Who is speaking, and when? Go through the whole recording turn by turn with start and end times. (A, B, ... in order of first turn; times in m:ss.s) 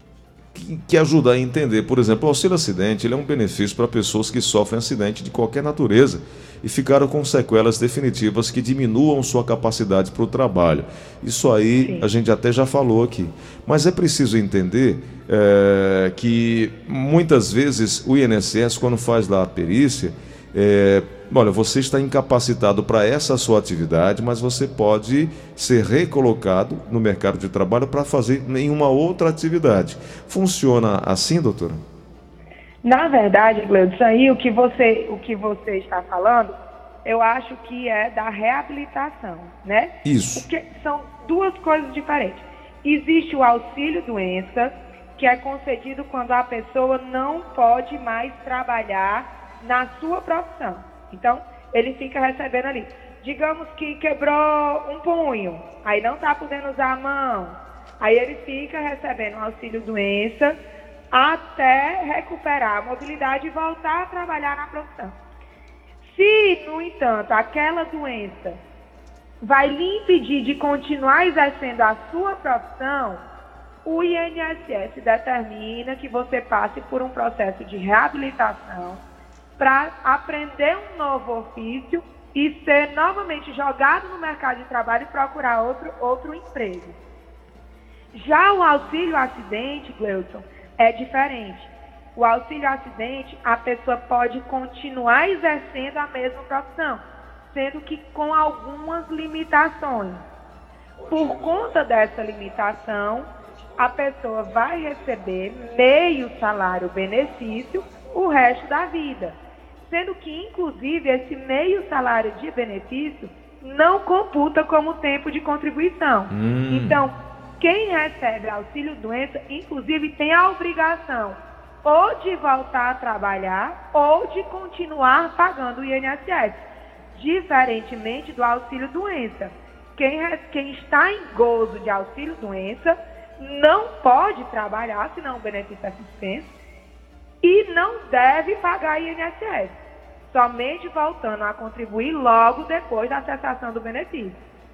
0:00.5-0:31.8 A
0:32.8-1:00.6 B
0:40.0-0:40.4 A
1:01.1-1:05.2 B
1:06.0-1:08.6 B
1:09.4-1:13.2 B
1:13.8-1:19.0 B
1:19.6-1:27.0 B
1:28.1-1:40.2 B
1:41.1-2:16.5 B
1:56.3-1:57.0 A
2:17.4-2:24.4 B